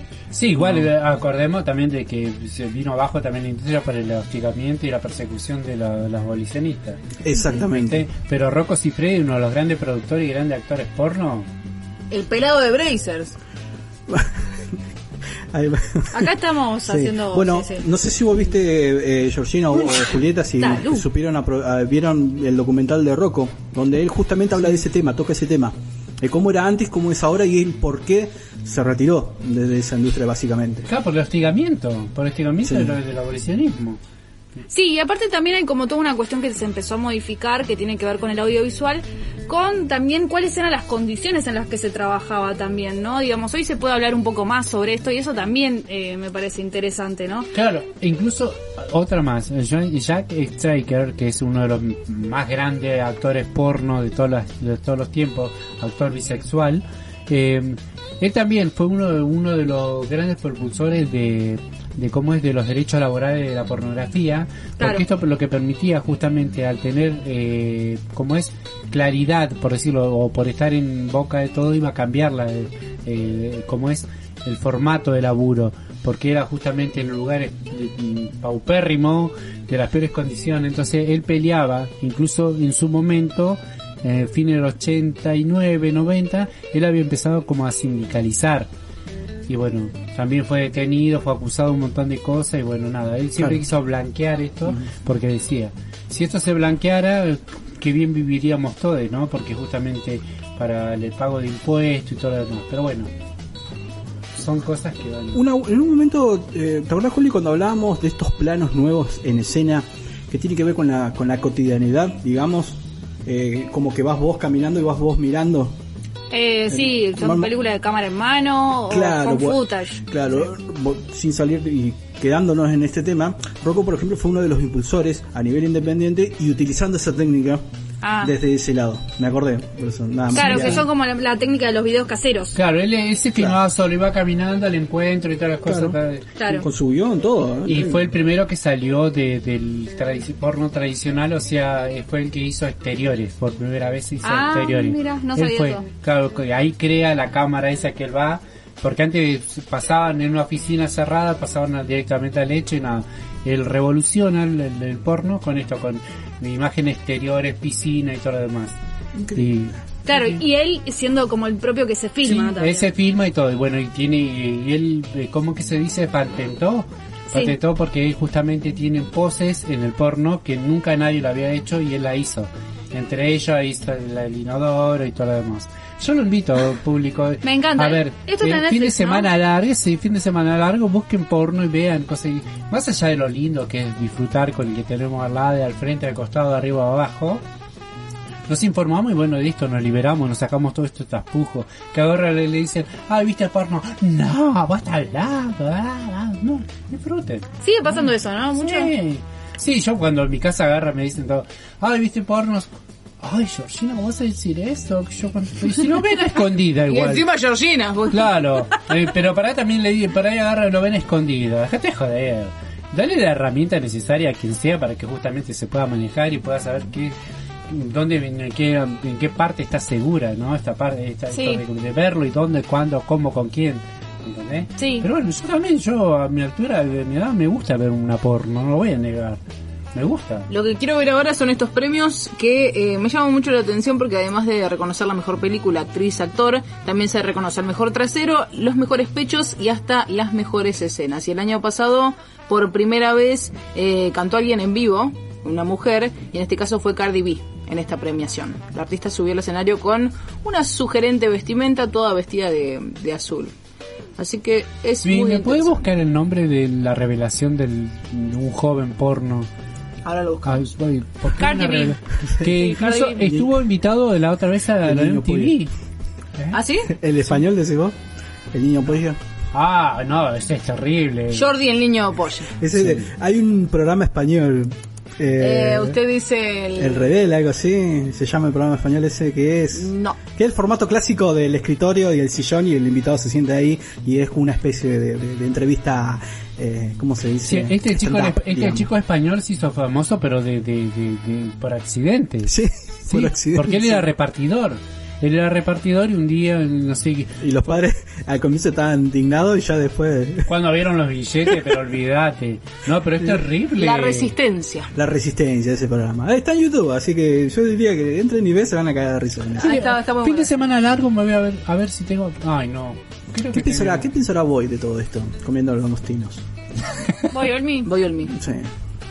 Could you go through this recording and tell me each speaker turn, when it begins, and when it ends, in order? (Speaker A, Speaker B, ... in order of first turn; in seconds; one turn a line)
Speaker A: 0.3-7.0
Speaker B: 0.6-0.9
Speaker B: 7.2-8.1
Speaker A: 7.6-11.5
Speaker C: 12.1-13.3
Speaker B: 14.1-14.4
Speaker B: 15.5-16.3
Speaker D: 16.1-17.8
Speaker B: 16.9-30.9
Speaker D: 20.6-21.0
Speaker A: 30.9-34.0
Speaker B: 32.6-33.0
Speaker D: 34.7-47.5
Speaker A: 47.5-88.7
Speaker D: 64.8-65.0
Speaker A: 89.5-103.1
Speaker B: 93.4-93.6
Speaker A: 104.3-105.4
Speaker B: 105.3-115.8
Speaker D: 116.3-120.0
Speaker B: 116.7-117.5
Speaker B: 118.9-127.6
Speaker D: 128.0-128.3
Speaker B: 128.2-130.8
Speaker D: 130.3-132.6
Speaker A: 130.3-130.8
Speaker A: 132.5-136.2
Speaker B: 135.6-136.0
Speaker D: 136.4-136.7
Speaker B: 136.5-138.1
Speaker A: 137.7-158.7
Speaker D: 144.2-145.8
Speaker B: 159.2-159.5
Speaker A: 159.3-160.4
Speaker D: 160.1-162.9
Speaker A: 162.2-187.4
Speaker D: 167.3-167.6
Speaker D: 177.4-179.3
Speaker A: 188.5-202.7
Speaker D: 197.6-198.9
Speaker A: 203.2-207.3
Speaker C: 206.9-208.6
Speaker A: 208.1-217.1
Speaker A: 217.7-229.4
Speaker D: 221.3-221.6
Speaker D: 224.8-225.1
Speaker A: 229.9-230.5
Speaker C: 230.5-253.5
Speaker C: 254.2-255.8
Speaker A: 255.0-259.5
Speaker C: 260.0-260.6
Speaker A: 260.4-265.7
Speaker D: 261.4-262.0
Speaker D: 262.5-263.3
Speaker B: 263.2-263.5
Speaker B: 264.8-265.6
Speaker C: 266.5-266.9
Speaker B: 266.9-267.9
Speaker B: 268.5-269.2
Speaker A: 269.5-271.5
Speaker C: 271.3-272.5
Speaker B: 272.6-276.0
Speaker A: 272.7-273.1
Speaker C: 275.4-277.1
Speaker B: 276.8-288.9
Speaker C: 279.7-280.2
Speaker A: 287.5-292.5
Speaker B: 292.4-294.1
Speaker A: 293.1-297.5
Speaker B: 297.4-300.5
Speaker A: 300.5-304.3
Speaker C: 303.8-304.9
Speaker B: 304.9-309.8
Speaker C: 309.6-310.5
Speaker A: 309.6-314.1
Speaker B: 313.5-316.4
Speaker D: 317.3-317.9
Speaker C: 317.8-318.3
Speaker B: 318.3-318.7